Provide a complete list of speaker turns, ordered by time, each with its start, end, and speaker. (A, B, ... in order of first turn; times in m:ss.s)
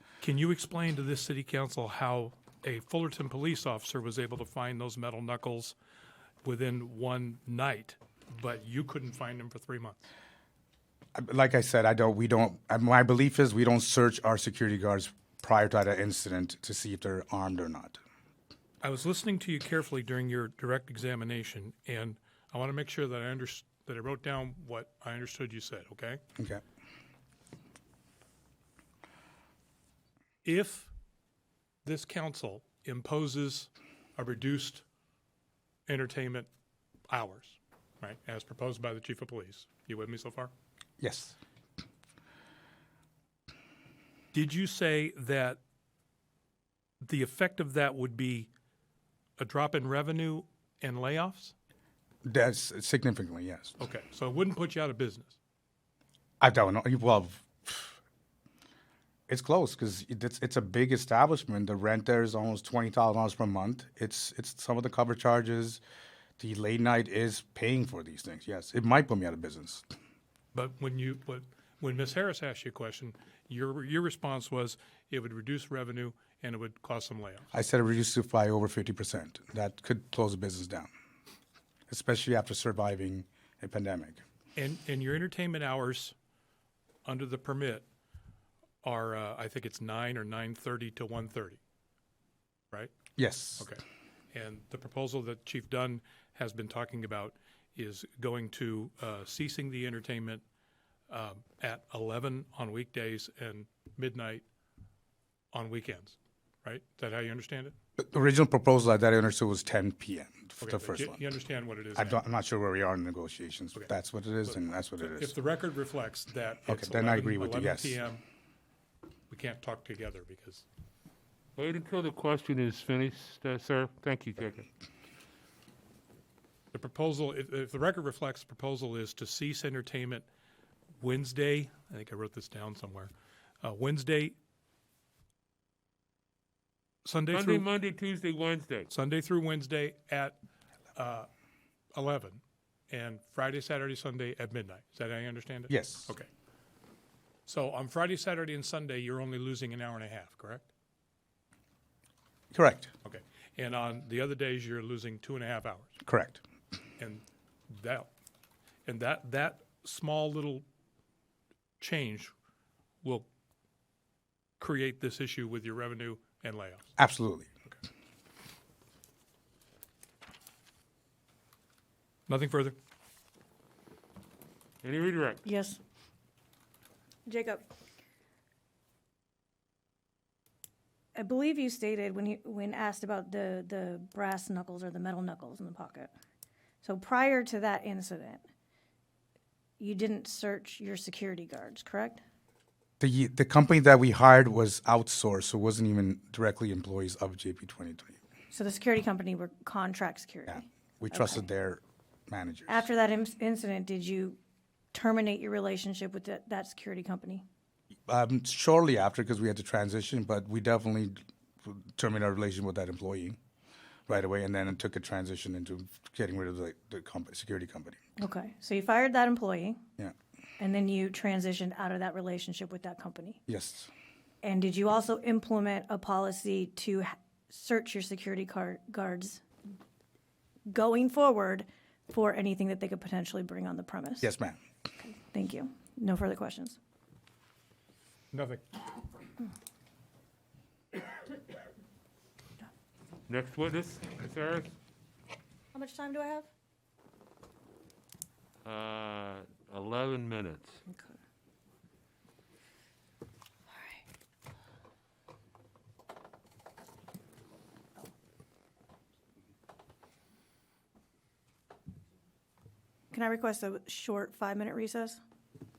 0:00.2-0:05.7 A
0:06.4-0:10.0 A
0:11.1-0:18.0 B
0:18.8-0:26.2 A
0:26.4-0:26.6 B
0:30.4-0:30.9 A
0:31.8-0:34.8 A
0:35.9-0:36.5 A
0:37.1-0:40.5 A
0:41.0-0:41.4 B
0:44.3-0:45.6 A
0:47.0-0:48.5 A
0:49.4-0:51.5 A
0:52.2-0:53.7 B
0:53.8-0:55.4 A
0:56.4-0:58.0 B
0:59.3-1:05.8 B
1:06.4-1:09.8 B
1:10.5-1:17.5 A
1:17.5-1:20.9 B
1:21.9-1:24.2 B
1:24.6-1:26.2 A
1:27.0-1:27.8 A
1:28.8-1:31.6 A
1:33.2-1:33.7 B
1:34.3-1:40.4 A
1:41.1-1:44.4 A
1:45.5-1:47.8 A
1:48.0-1:51.2 B
1:50.6-1:52.2 A
1:52.0-1:55.3 B
1:54.5-1:58.2 A
1:56.7-1:58.0 B
1:59.3-2:00.6 A
2:01.6-2:04.7 C
2:06.7-2:10.2 A
2:11.0-2:13.1 A
2:13.6-2:14.3 A
2:17.0-2:17.6 A
2:17.3-2:18.9 C
2:18.9-2:20.4 A
2:20.9-2:21.3 A
2:21.9-2:26.3 A
2:25.7-2:26.1 B
2:27.5-2:30.6 A
2:32.5-2:32.9 B
2:33.0-2:36.0 A
2:36.0-2:36.4 B
2:37.0-2:38.1 A
2:38.8-2:40.6 A
2:41.8-2:42.3 A
2:44.6-2:46.9 A
2:47.0-2:47.5 B
2:52.3-2:52.8 A
2:54.8-2:55.4 C
2:55.4-2:55.8 D
2:57.3-2:57.7 D
3:01.1-3:06.1 D
3:06.8-3:08.4 D
3:09.8-3:12.2 D
3:13.0-3:18.2 B
3:18.5-3:21.4 D
3:20.5-3:22.8 B
3:22.7-3:24.4 D
3:24.9-3:27.4 D
3:28.1-3:33.4 B
3:34.1-3:38.0 B
3:38.2-3:39.8 D
3:40.6-3:43.4 D
3:43.5-3:43.9 B
3:44.4-3:49.4 D
3:50.7-3:54.3 D
3:54.2-3:54.6 B
3:55.0-3:56.8 D
3:58.3-3:58.8 A
4:03.3-4:04.8 C
4:05.7-4:06.5 D
4:08.6-4:10.8 C
4:10.9-4:11.2 D
4:13.7-4:14.0 D
4:23.1-4:25.2 D